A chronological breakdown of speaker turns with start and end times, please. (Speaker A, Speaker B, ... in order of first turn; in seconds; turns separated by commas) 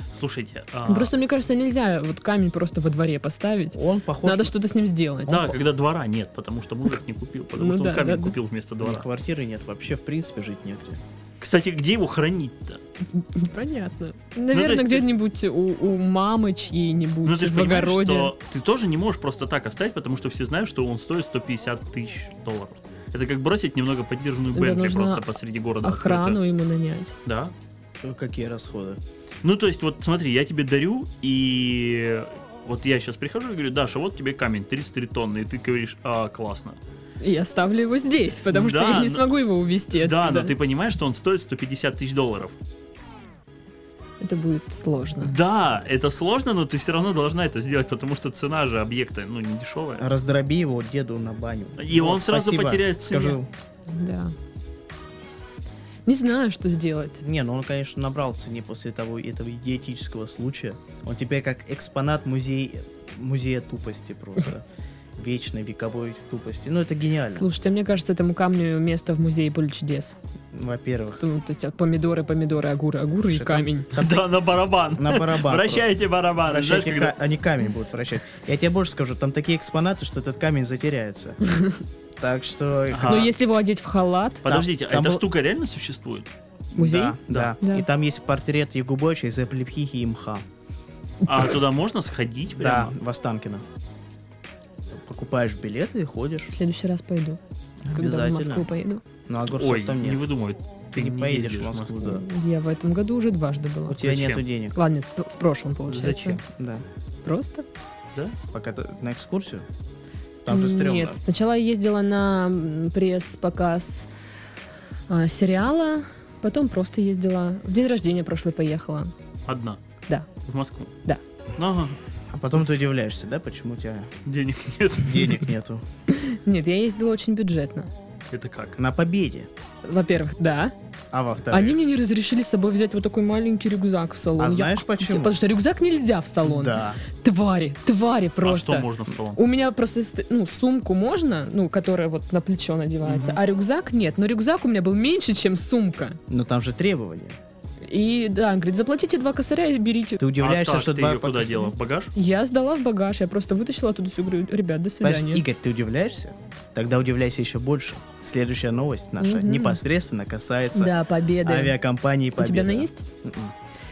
Speaker A: 0.1-1.1, Speaker B: 0.9-5.5, Speaker C: 3.7-4.5, Speaker A: 5.3-9.0, Speaker B: 7.5-8.3, Speaker C: 8.8-11.0, Speaker A: 11.4-12.8, Speaker B: 13.1-18.3, Speaker A: 14.5-15.1, Speaker A: 17.2-26.4, Speaker B: 24.5-25.2, Speaker B: 25.8-27.1, Speaker A: 27.2-27.5, Speaker C: 28.0-29.0, Speaker A: 29.4-36.8, Speaker B: 37.2-40.5, Speaker A: 38.5-39.2, Speaker A: 39.9-42.5, Speaker B: 44.2-45.3, Speaker A: 45.2-50.0, Speaker C: 50.0-53.5, Speaker A: 51.8-53.4, Speaker B: 53.9-54.3, Speaker B: 56.0-57.2, Speaker C: 57.2-64.6, Speaker C: 65.2-67.5, Speaker B: 67.3-70.2, Speaker C: 70.5-71.2, Speaker B: 71.2-73.9, Speaker C: 73.2-74.2, Speaker A: 73.9-77.1, Speaker C: 75.0-75.9, Speaker C: 76.5-81.4, Speaker B: 81.4-81.8, Speaker C: 82.2-83.3, Speaker A: 82.9-83.3, Speaker B: 83.1-84.4, Speaker A: 84.4-86.3, Speaker C: 84.5-85.2, Speaker C: 86.7-90.4, Speaker B: 86.8-87.8, Speaker A: 87.3-87.5, Speaker B: 91.2-91.5, Speaker A: 91.3-92.9, Speaker C: 92.5-93.6, Speaker C: 94.9-96.5, Speaker B: 96.5-97.4, Speaker C: 97.8-98.7, Speaker B: 97.9-99.0, Speaker C: 99.3-100.2, Speaker A: 99.5-102.2, Speaker C: 100.9-102.2, Speaker B: 102.1-104.0, Speaker C: 103.9-104.8, Speaker A: 104.0-104.4, Speaker B: 104.7-106.4, Speaker A: 105.9-106.4, Speaker C: 106.5-106.8, Speaker B: 107.2-107.6, Speaker C: 108.5-109.7, Speaker C: 110.4-111.2, Speaker B: 110.5-114.1, Speaker B: 115.1-119.1, Speaker A: 119.5-119.8, Speaker A: 120.4-120.9, Speaker A: 121.5-122.0, Speaker C: 122.3-124.1, Speaker A: 124.2-125.5, Speaker C: 125.0-125.8, Speaker B: 126.1-127.9, Speaker A: 128.3-128.8, Speaker C: 128.8-129.5, Speaker B: 129.8-130.7, Speaker C: 131.1-131.8, Speaker B: 131.5-146.2, Speaker C: 134.4-135.3, Speaker C: 136.4-137.0, Speaker A: 138.4-139.4, Speaker A: 143.0-143.4, Speaker C: 146.3-147.4, Speaker B: 147.8-150.2, Speaker C: 150.2-151.7, Speaker A: 150.4-152.1, Speaker B: 152.1-155.4, Speaker C: 155.0-163.5, Speaker B: 159.2-159.8, Speaker B: 160.7-161.8, Speaker B: 162.3-163.0